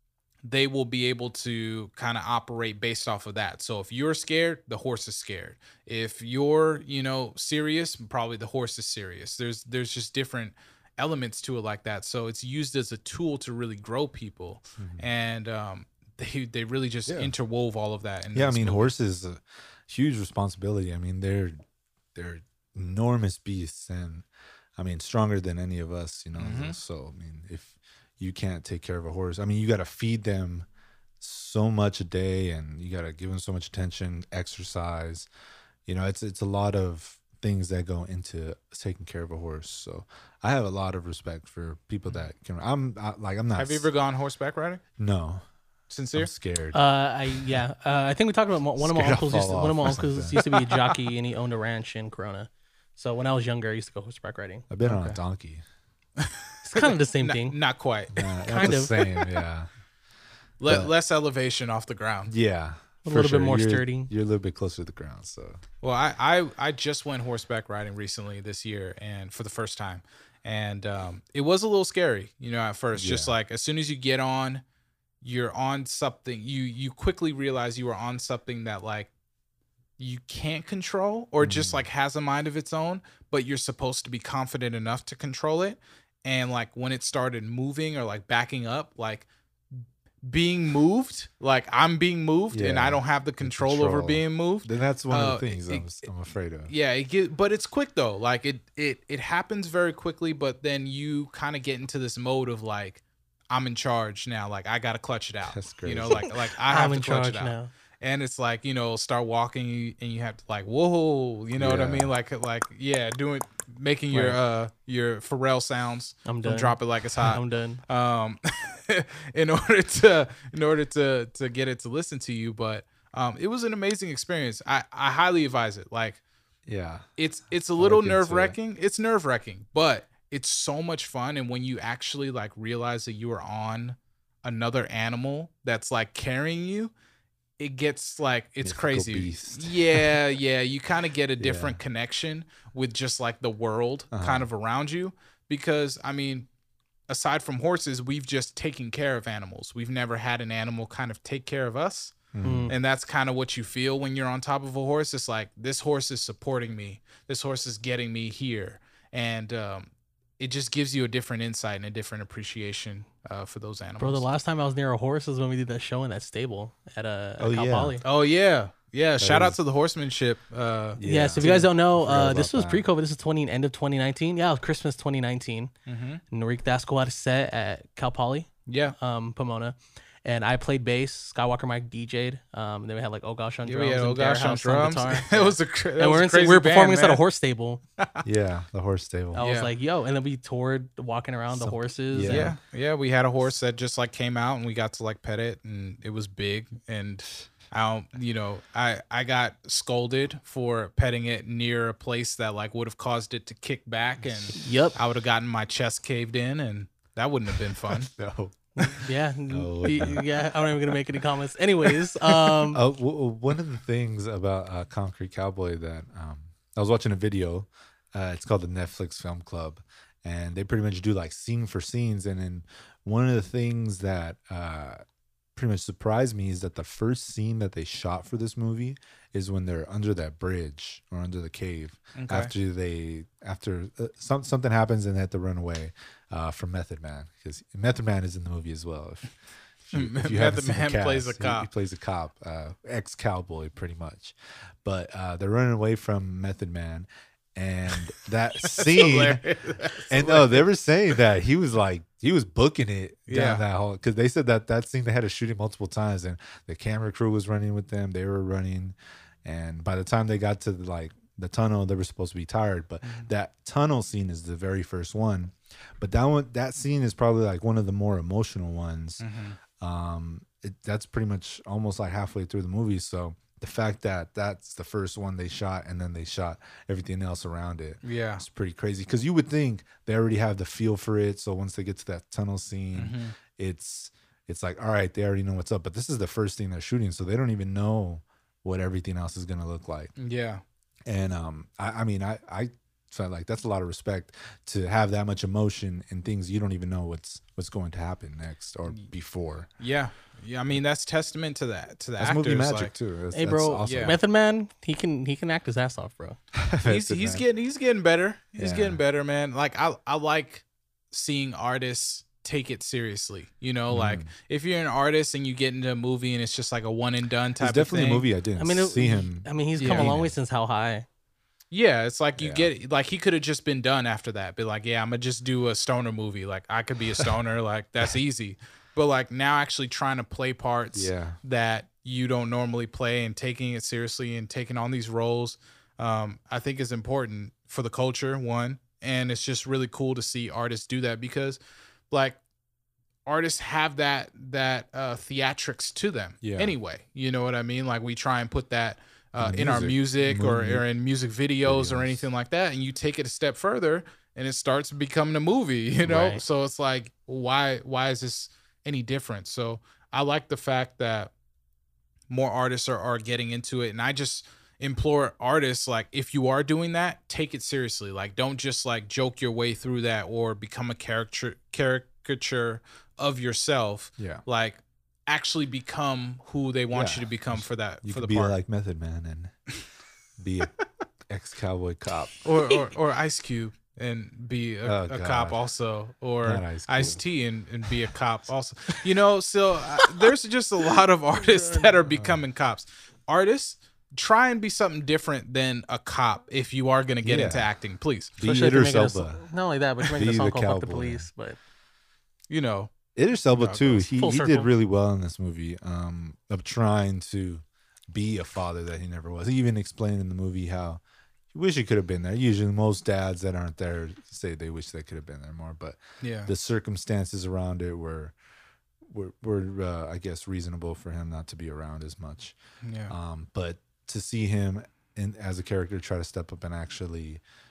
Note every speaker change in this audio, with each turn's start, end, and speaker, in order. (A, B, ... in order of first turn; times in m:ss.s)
0:00.4-0:18.9 A
0:14.8-0:15.1 B
0:17.1-0:17.3 B
0:18.3-0:21.6 B
0:22.2-0:30.7 B
0:26.4-0:26.8 A
0:31.2-0:35.3 B
0:35.9-0:43.9 B
0:43.6-0:44.8 A
0:45.0-0:45.4 B
0:45.9-0:46.3 A
0:46.2-0:46.8 B
0:46.7-0:55.2 C
0:47.3-0:47.6 B
0:48.8-0:50.5 B
0:50.4-0:50.8 A
0:54.7-0:55.6 B
0:56.2-0:58.8 A
0:56.6-0:57.6 C
0:58.1-0:59.7 B
0:58.5-0:59.2 C
1:00.6-1:02.3 A
1:00.6-1:00.9 B
1:02.3-1:05.6 B
1:03.0-1:04.1 C
1:05.8-1:14.6 A
1:13.0-1:13.3 B
1:15.2-1:19.1 A
1:20.0-1:36.0 A
1:21.4-1:21.8 B
1:32.5-1:36.7 B
1:36.7-2:06.2 A
1:45.5-1:46.3 B
1:46.6-1:47.7 C
1:51.6-1:52.1 B
1:54.1-1:54.4 C
1:56.3-1:57.8 C
2:06.7-2:07.1 B
2:07.2-2:16.9 A
2:07.8-2:08.6 B
2:17.6-2:26.5 A
2:18.6-2:20.2 B
2:21.4-2:21.8 B
2:24.1-2:24.5 B
2:27.1-2:44.3 A
2:32.3-2:32.7 B
2:32.4-2:32.7 C
2:44.0-2:48.0 C
2:47.4-2:48.0 B
2:48.0-2:51.7 A
2:49.2-2:49.6 B
2:51.0-2:52.8 B
2:51.0-2:55.7 C
2:55.9-2:56.2 A
2:56.3-3:07.8 C
2:58.7-2:59.0 A
3:03.6-3:07.2 A
3:08.2-3:09.4 B
3:09.3-3:12.6 C
3:09.4-3:09.7 A
3:11.5-3:12.6 B
3:12.3-3:28.1 A
3:24.5-3:25.0 C
3:27.9-3:30.4 B
3:28.8-3:32.8 C
3:32.0-3:45.0 B
3:45.6-4:09.4 B
3:52.2-3:52.5 A
3:59.9-4:01.7 A
4:08.6-4:10.7 A
4:10.0-4:29.2 B
4:13.3-4:13.6 A
4:23.0-4:23.3 A
4:29.2-4:29.6 A
4:29.8-4:50.1 B
4:38.0-4:38.4 A
4:43.0-4:43.4 A
4:50.2-4:50.6 A
4:51.1-4:59.7 B
4:59.8-5:02.9 A
5:02.2-5:04.2 B
5:03.3-5:06.4 C
5:03.8-5:04.2 A
5:06.6-5:07.4 B
5:06.8-5:18.3 A
5:08.6-5:09.0 B
5:13.9-5:14.3 B
5:17.6-5:20.3 B
5:18.6-5:21.1 C
5:19.8-5:20.1 A
5:21.7-5:41.6 A
5:22.4-5:22.7 B
5:30.9-5:31.4 B
5:42.1-5:42.4 A
5:43.3-6:01.3 A
5:46.4-5:46.8 B
5:49.4-5:50.8 B
5:51.6-5:52.3 B
5:56.0-5:56.4 C
6:02.3-6:18.6 A
6:14.2-6:14.4 B
6:16.9-6:19.6 B
6:20.4-6:20.7 B
6:21.3-6:22.4 B
6:22.4-6:38.4 A
6:24.8-6:25.6 B
6:26.4-6:27.2 B
6:31.4-6:32.0 C
6:32.2-6:32.4 B
6:37.2-6:37.7 B
6:38.4-6:39.5 B
6:38.4-6:41.6 C
6:40.0-6:41.3 B
6:42.5-6:42.9 A
6:43.2-6:51.0 B
6:43.5-6:44.1 A
6:44.1-6:44.7 C
6:51.5-6:58.4 B
6:56.2-6:56.5 A
6:59.0-7:02.6 B
7:02.8-7:03.1 A
7:03.1-7:07.4 B